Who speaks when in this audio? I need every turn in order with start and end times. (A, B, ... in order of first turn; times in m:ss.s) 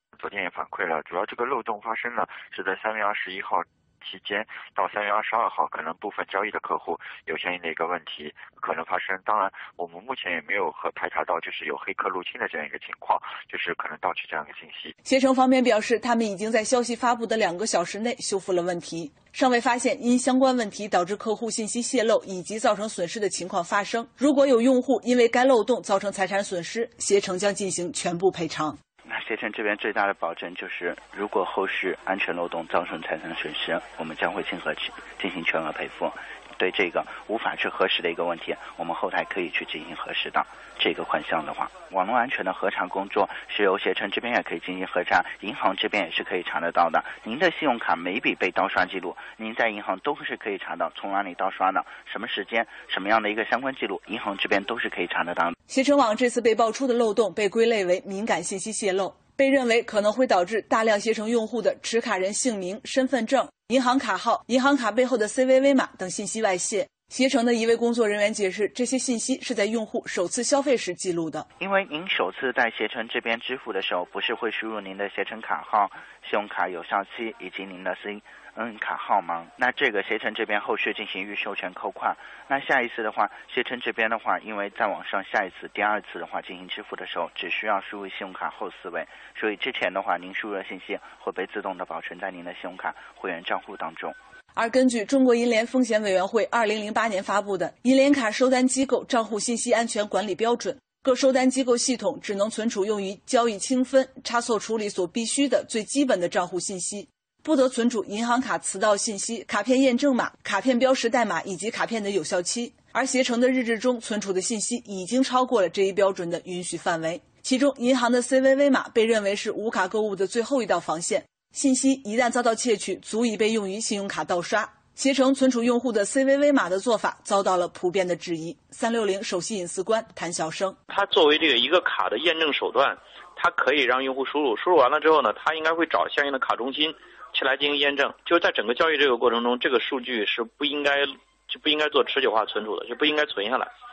0:00.2-0:15.0 A
0:15.0-0:28.8 B
0:29.1-0:55.5 C
0:55.7-1:11.5 B
1:11.6-1:34.2 C
1:34.6-2:10.8 B
2:10.9-2:23.7 D